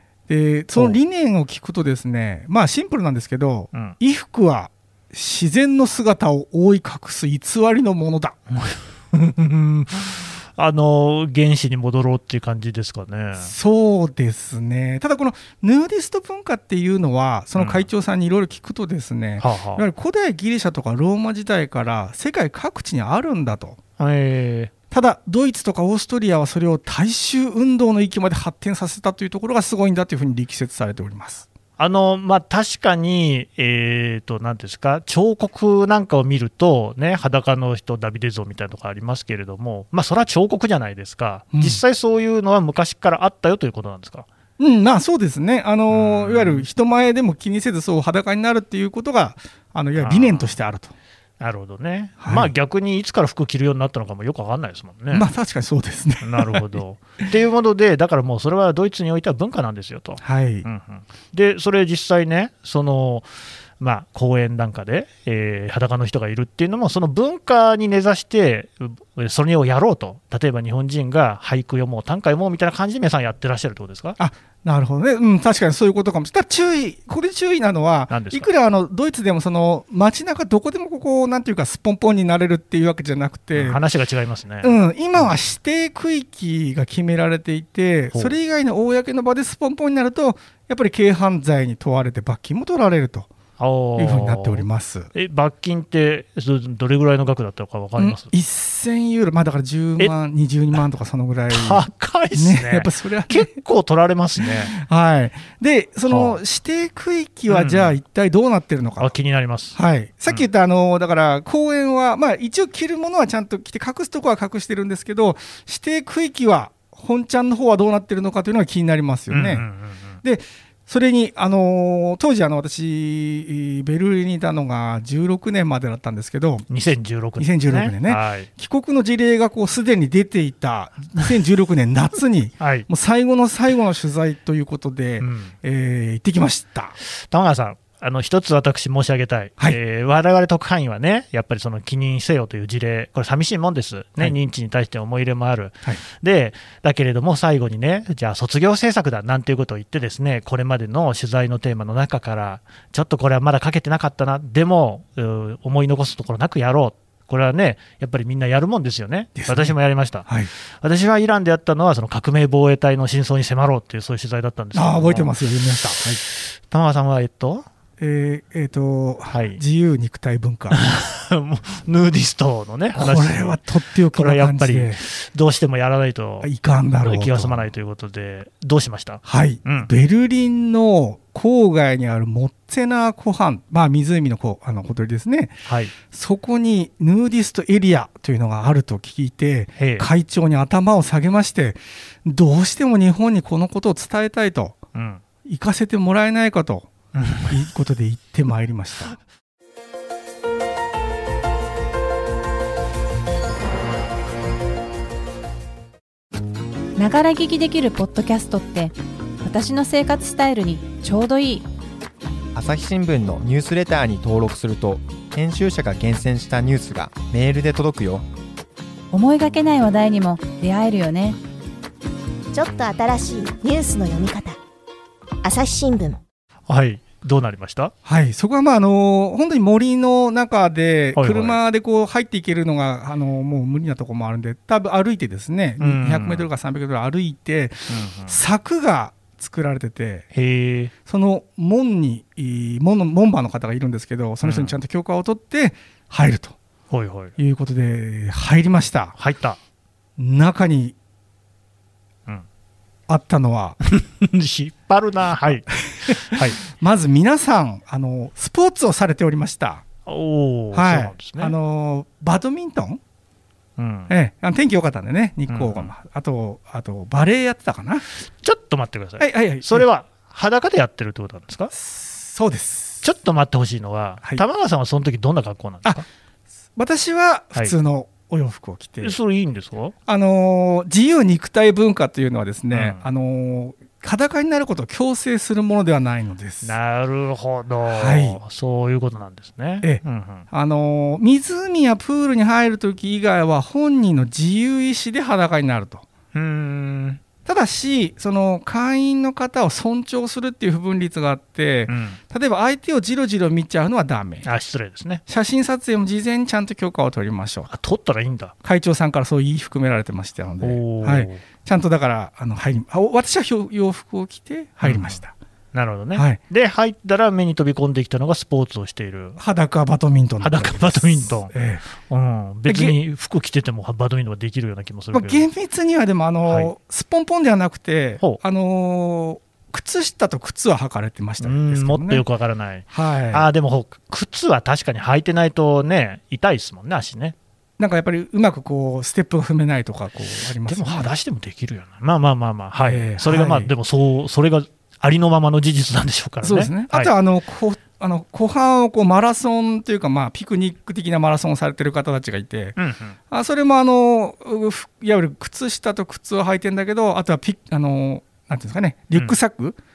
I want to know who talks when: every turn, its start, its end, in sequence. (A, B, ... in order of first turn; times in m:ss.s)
0:00.3-0:08.4 A
0:08.5-0:13.5 B
0:13.4-0:23.8 A
0:17.6-0:17.9 B
0:19.4-0:19.8 B
0:24.0-0:24.7 B
0:24.9-0:31.5 A
0:31.8-0:44.3 B
0:41.5-0:41.8 A
0:44.6-0:50.9 A
0:45.9-0:46.7 B
0:50.0-0:50.5 B
0:51.4-0:55.3 B
0:52.2-0:52.5 A
0:55.1-0:56.8 A
0:56.2-1:14.2 B
1:00.2-1:00.7 A
1:14.2-1:23.8 A
1:18.1-1:18.5 B
1:23.6-1:25.3 B
1:24.6-1:33.3 A
1:33.6-1:38.3 B
1:34.0-1:35.1 A
1:38.0-1:43.6 A
1:41.5-1:44.8 B
1:44.4-1:49.2 A
1:46.1-1:46.4 B
1:47.5-1:48.0 B
1:49.0-1:49.8 B
1:49.7-1:59.7 A
1:59.3-2:00.2 B
2:00.2-2:06.7 A
2:06.7-2:08.5 B
2:07.4-2:17.0 A
2:12.6-2:12.9 B
2:15.2-2:15.5 B
2:17.1-2:40.3 B
2:39.4-2:40.5 A
2:40.8-2:45.3 B
2:44.7-2:46.2 A
2:46.3-2:47.7 B
2:48.0-2:50.8 A
2:49.3-2:49.6 B
2:50.7-2:53.6 B
2:53.0-2:55.0 A
2:54.1-2:56.5 B
2:56.4-2:57.7 A
2:57.0-2:59.9 B
2:59.2-3:14.8 A
3:05.7-3:06.0 B
3:09.8-3:10.1 B
3:14.9-3:15.2 B
3:15.4-3:19.2 A
3:17.2-3:17.6 B
3:27.0-3:31.7 C
3:32.6-3:38.2 D
3:39.1-3:41.4 C
3:42.5-3:44.6 E
3:45.4-3:46.2 E
3:46.7-3:47.9 B
3:48.0-4:00.3 A
3:51.2-3:51.6 B
3:55.8-3:56.5 B
3:57.9-3:58.4 B
4:00.3-4:00.9 B
4:01.1-4:06.6 A
4:04.4-4:04.8 B
4:06.9-4:07.4 B
4:07.4-4:09.2 A
4:09.2-4:09.6 B
4:10.2-4:11.0 A
4:13.1-4:13.8 A
4:13.8-4:16.6 B
4:15.9-4:19.9 A
4:20.1-4:21.6 B
4:20.7-4:23.0 A
4:23.8-4:24.1 B
4:24.1-4:28.0 A
4:25.5-4:25.9 B
4:28.4-4:31.7 B
4:29.2-4:29.9 A
4:31.7-4:33.0 A
4:33.0-4:36.0 B
4:36.8-4:39.2 A
4:39.0-4:40.0 B
4:40.1-4:46.8 A
4:42.7-4:43.0 B
4:46.6-4:50.4 B
4:47.9-4:48.4 A
4:49.8-4:56.1 A
4:56.3-4:57.2 B
4:57.5-5:04.5 A
5:01.9-5:02.2 B
5:04.4-5:05.2 B
5:05.3-5:07.7 A
5:07.7-5:08.5 B
5:08.6-5:15.4 A
5:10.6-5:11.4 B
5:14.8-5:15.2 B
5:15.7-5:19.4 B
5:19.4-5:21.8 A
5:20.4-5:25.5 B
5:22.7-5:23.0 A
5:25.1-5:32.2 A
5:26.5-5:26.7 B
5:31.4-5:37.4 B
5:32.9-5:33.5 A
5:37.8-5:41.1 A
5:40.6-5:47.1 B
5:42.8-5:43.7 A
5:46.4-5:52.8 A
5:52.8-5:53.2 B
5:53.3-5:59.8 A